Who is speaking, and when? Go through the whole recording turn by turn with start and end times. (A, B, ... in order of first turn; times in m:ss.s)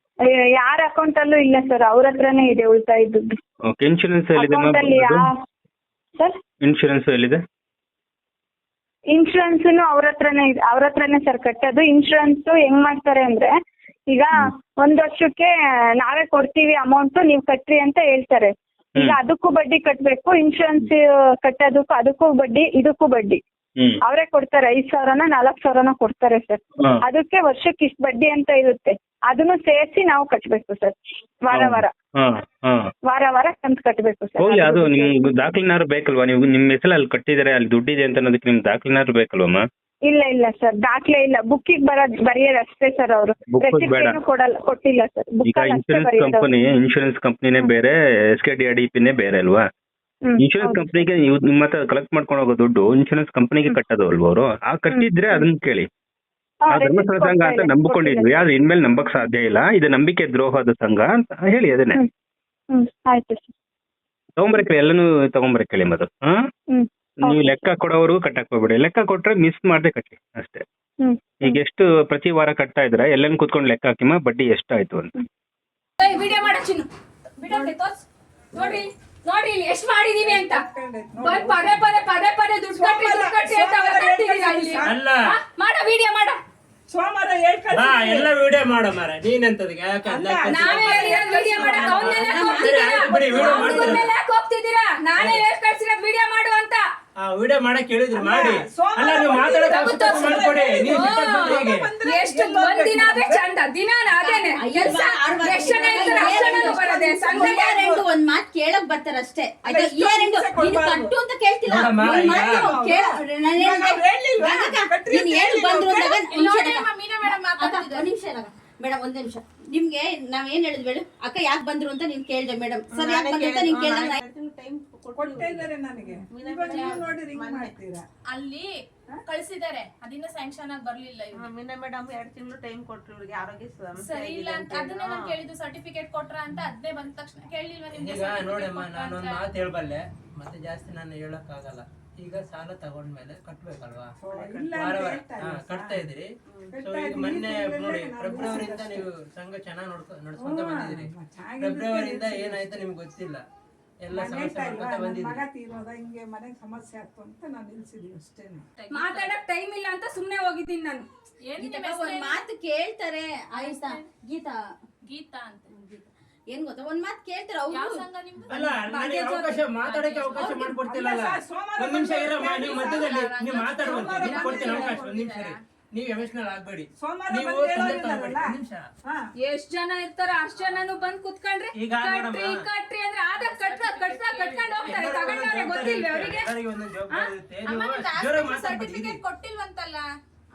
0:00.3-0:03.3 A
0:03.7-0:05.2 B
0:04.4-0:05.3 A
0:06.6-0:07.4 B
0:09.1-0:13.5 A
0:14.1-0:23.4 A
0:24.0-0:31.9 A
0:31.5-0:32.9 B
0:33.1-0:35.1 A
0:34.4-0:39.6 B
0:40.1-0:46.5 A
0:43.5-0:44.2 B
0:45.5-0:49.6 B
0:50.2-0:51.0 A
0:50.4-0:55.9 B
0:54.9-0:55.4 A
0:56.7-0:58.4 A
0:56.7-1:02.0 B
1:02.7-1:03.5 A
1:04.4-1:06.4 B
1:06.7-1:07.6 A
1:07.2-1:10.6 B
1:11.0-1:11.6 A
1:11.4-1:15.1 B
1:16.0-1:16.9 C
1:17.4-1:20.6 C
1:20.2-1:21.9 D
1:21.2-1:26.4 C
1:22.7-1:25.0 D
1:24.8-1:25.2 E
1:26.9-1:28.3 D
1:27.7-1:31.2 E
1:30.0-1:34.0 D
1:30.5-1:36.8 C
1:31.8-1:34.1 E
1:37.2-1:41.9 E
1:38.1-1:43.4 D
1:39.6-1:47.9 C
1:44.2-2:04.2 F
1:45.0-1:48.0 D
1:49.6-1:51.1 D
1:51.7-1:52.7 E
1:51.9-1:56.2 D
1:56.0-1:58.1 G
2:02.9-2:05.7 H
2:05.1-2:08.1 D
2:06.3-2:07.8 H
2:06.7-2:07.1 G
2:08.3-2:08.7 G
2:09.3-2:11.5 G
2:11.3-2:15.4 H
2:14.0-2:19.5 G
2:17.9-2:24.1 E
2:24.2-2:26.1 D
2:24.7-2:33.4 E
2:26.7-2:29.1 D
2:30.4-2:32.9 D
2:34.0-2:35.4 E
2:34.1-2:38.6 D
2:38.8-2:39.3 G
2:38.9-2:41.1 C
2:41.5-2:42.4 G
2:41.6-2:44.8 F
2:43.5-2:44.0 G
2:45.1-2:45.8 G
2:45.8-2:48.0 F
2:47.7-2:48.9 G
2:48.5-2:58.9 E
2:48.9-2:49.6 C
2:49.8-2:50.7 G
2:50.7-2:53.1 D
2:52.5-2:55.6 G
2:53.8-2:55.2 D
2:57.0-2:59.3 D
2:59.4-3:06.5 C
3:01.8-3:02.6 E
3:03.4-3:05.2 G
3:04.8-3:09.2 E
3:07.6-3:10.1 G